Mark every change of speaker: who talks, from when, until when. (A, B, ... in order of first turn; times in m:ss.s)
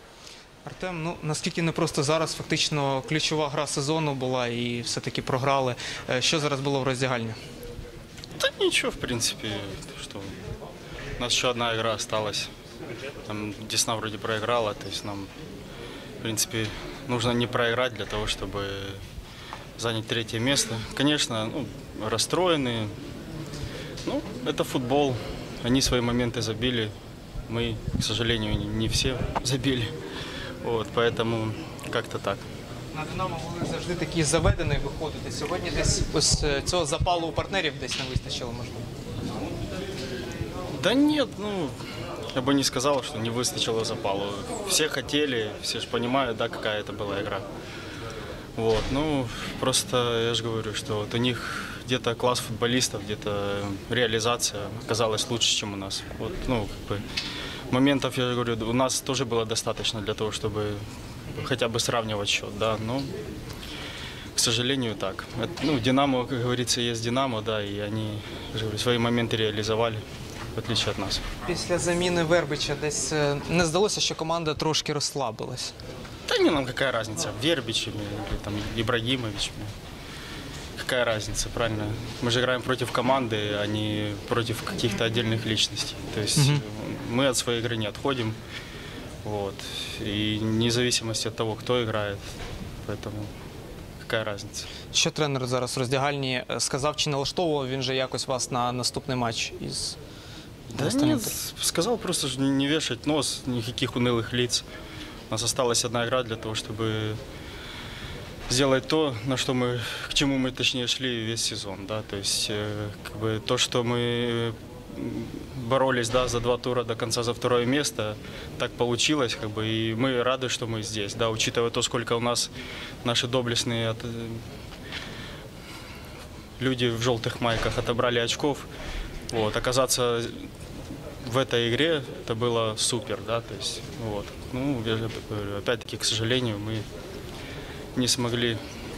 0:00.7-0:07.4 A
0:08.4-0:10.4 B
0:11.2-0:12.5 B
0:13.2-0:15.3 B
0:16.2-0:19.0 B
0:19.8-0:23.0 B
0:24.0-0:26.9 B
0:27.5-0:30.0 B
0:30.6-0:32.5 B
0:32.9-0:38.9 A
0:40.7-0:41.8 B
0:42.3-0:47.5 B
0:48.6-0:57.0 B
0:57.7-1:03.1 B
1:04.4-1:10.0 B
1:10.6-1:11.3 B
1:11.5-1:15.7 A
1:16.3-1:19.7 B
1:20.8-1:28.4 B
1:26.4-1:26.6 A
1:29.2-1:33.3 B
1:34.0-1:34.8 B
1:34.9-1:40.0 A
1:40.7-1:44.7 B
1:40.8-1:41.3 A
1:45.3-1:47.2 B
1:48.5-2:02.5 B
2:03.0-2:04.4 B
2:06.6-2:08.7 B
2:09.3-2:10.5 B
2:11.2-2:16.9 B
2:17.9-2:18.6 B